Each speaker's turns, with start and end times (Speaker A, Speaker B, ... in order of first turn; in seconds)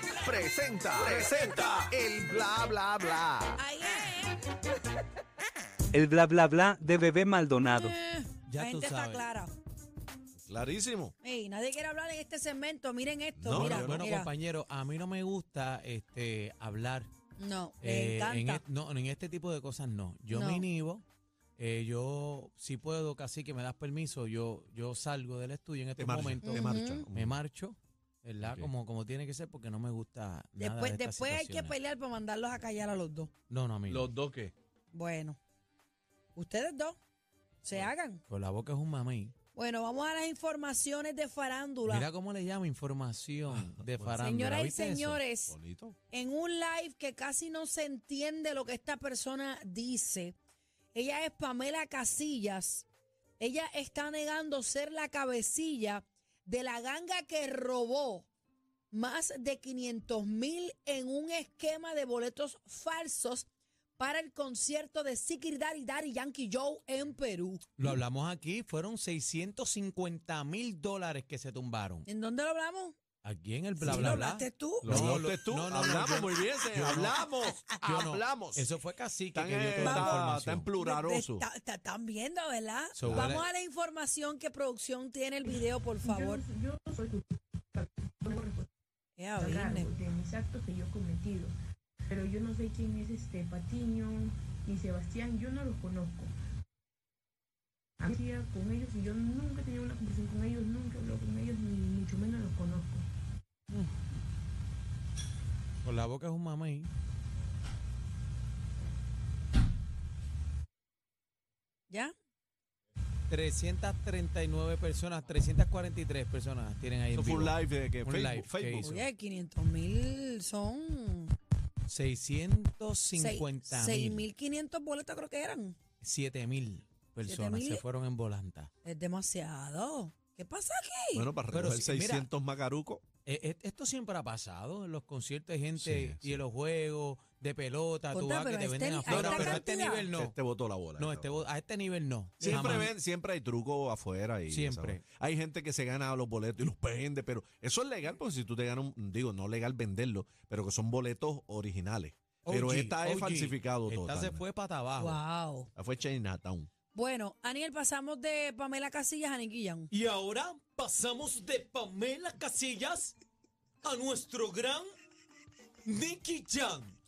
Speaker A: 0.2-3.5
Speaker B: 0.9-1.9, 10.4-11.1, 13.4-14.1, 26.0-27.4, 28.4-28.7, 33.9-34.5, 43.5-44.2, 45.5-46.0, 73.8-74.2, 74.8-78.7, 79.3-81.5, 83.0-83.4, 117.1-118.9, 131.1-133.1, 135.8-136.4, 139.1-141.5, 142.4-154.4, 155.8-156.7
Speaker C: 3.6-4.7, 7.6-9.5, 11.2-14.3, 17.4-18.6, 20.3-20.6, 26.4-27.1, 30.6-33.3, 34.9-35.4, 36.4-37.0, 37.6-38.2, 39.5-42.1, 44.2-45.5, 46.1-50.4, 50.9-52.9, 53.4-58.3, 58.9-63.5, 64.0-67.7, 72.1-73.0, 73.8-74.9, 79.8-86.4, 89.2-89.9, 118.8-121.3, 123.2-125.8, 127.2-127.8, 128.8-131.3, 138.1-140.1, 155.0-155.7, 156.9-159.9
Speaker D: 5.9-7.9
Speaker E: 8.5-9.3, 13.5-17.1, 17.8-21.0, 21.6-31.7, 33.5-34.1, 38.3-39.3, 41.9-45.2, 67.8-72.1, 73.2-77.3, 77.8-80.7, 82.9-83.5, 105.8-106.9, 113.3-119.1, 121.9-124.3, 126.0-128.7, 131.5-132.3, 133.3-140.3, 141.0-142.9, 144.5-145.0, 152.5-155.2, 159.9-163.2, 163.8-164.9, 165.8-167.0
Speaker F: 86.0-88.7, 89.4-91.5, 92.1-96.3, 98.0-103.1